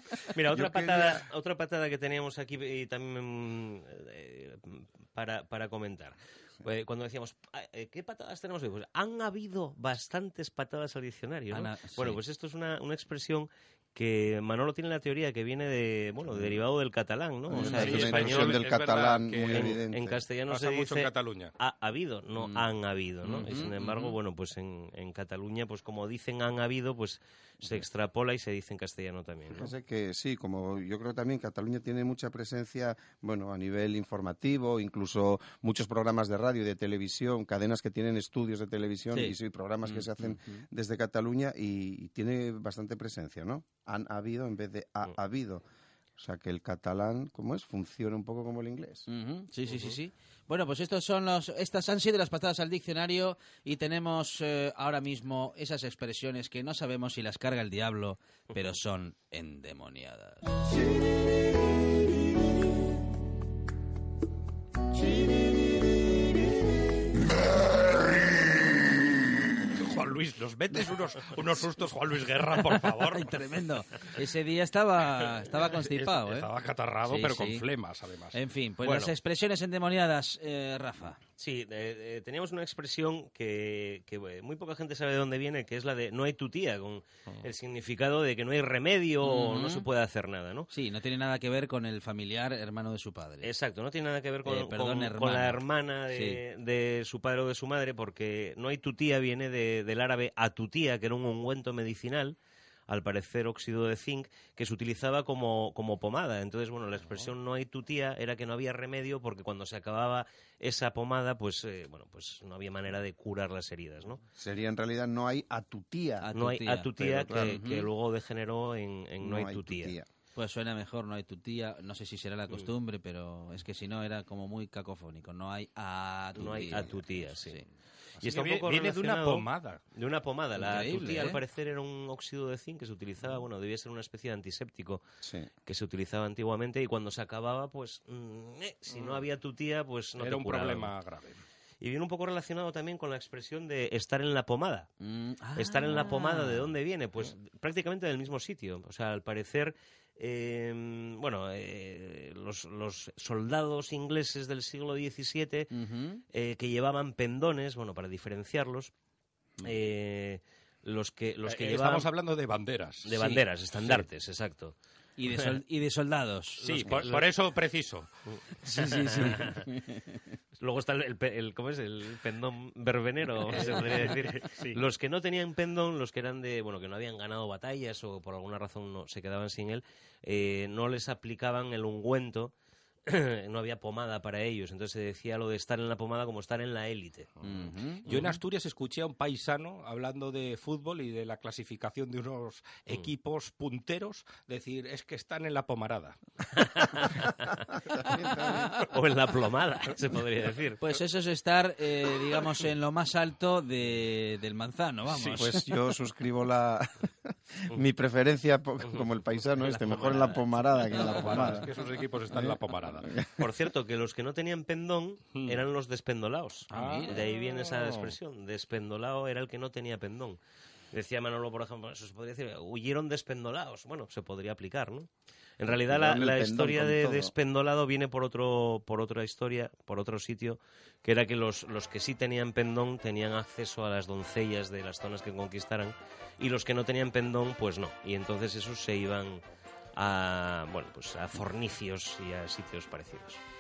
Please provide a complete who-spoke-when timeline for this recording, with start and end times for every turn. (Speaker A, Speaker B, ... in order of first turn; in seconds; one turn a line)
Speaker A: 0.3-18.7
Speaker B: 0.5-1.2
Speaker C: 11.5-12.2
Speaker B: 17.5-20.2
Speaker C: 17.5-18.1
Speaker D: 17.6-19.8
Speaker A: 19.5-29.7
Speaker D: 20.5-21.5
Speaker C: 22.4-22.7
Speaker C: 23.2-24.1
Speaker B: 29.5-45.6
Speaker C: 39.1-39.4
Speaker C: 40.0-40.6
Speaker B: 46.2-49.1
Speaker C: 49.1-60.5
Speaker A: 49.7-50.0
Speaker D: 69.6-73.4
Speaker C: 73.0-76.5
Speaker D: 75.2-79.2
Speaker C: 77.0-77.7
Speaker C: 78.3-81.2
Speaker A: 81.4-90.7
Speaker C: 89.2-89.8
Speaker C: 90.7-93.5
Speaker A: 93.4-102.4
Speaker C: 94.5-96.4
Speaker A: 102.9-114.2
Speaker B: 114.4-116.3
Speaker C: 116.2-117.9
Speaker A: 116.3-120.0
Speaker B: 117.0-117.6
Speaker B: 119.2-120.1
Speaker C: 120.4-127.6
Speaker A: 126.4-127.6
Speaker D: 128.2-129.8
Speaker A: 128.2-135.0
Speaker C: 130.6-131.4
Speaker B: 135.2-135.5
Speaker A: 135.7-140.9
Speaker D: 138.9-139.2
Speaker D: 140.2-141.4
Speaker A: 141.8-144.9
Speaker C: 145.0-146.7
Speaker A: 145.6-155.7
Speaker C: 155.7-156.2
Speaker A: 156.3-158.9
Speaker A: 159.6-162.1
Speaker D: 161.5-163.1
Speaker A: 163.1-165.6
Speaker C: 163.1-164.0
Speaker C: 165.2-167.0
Speaker D: 166.6-168.1
Speaker A: 166.7-167.3
Speaker C: 168.6-170.0
Speaker A: 168.8-169.7
Speaker A: 170.6-182.5
Speaker D: 173.5-174.8
Speaker A: 183.1-187.3
Speaker C: 187.4-188.1
Speaker D: 188.1-196.2
Speaker A: 196.5-197.5
Speaker B: 197.7-198.9
Speaker C: 198.2-198.8
Speaker A: 198.9-200.8
Speaker C: 200.8-205.7
Speaker D: 205.1-205.5
Speaker B: 205.3-211.7
Speaker A: 209.8-210.5
Speaker D: 210.9-213.2
Speaker C: 211.2-211.6
Speaker B: 212.3-213.4
Speaker A: 213.4-220.4
Speaker D: 215.4-215.6
Speaker C: 216.7-217.2
Speaker D: 216.7-218.1
Speaker A: 220.9-239.4
Speaker B: 225.7-227.3
Speaker A: 239.9-243.4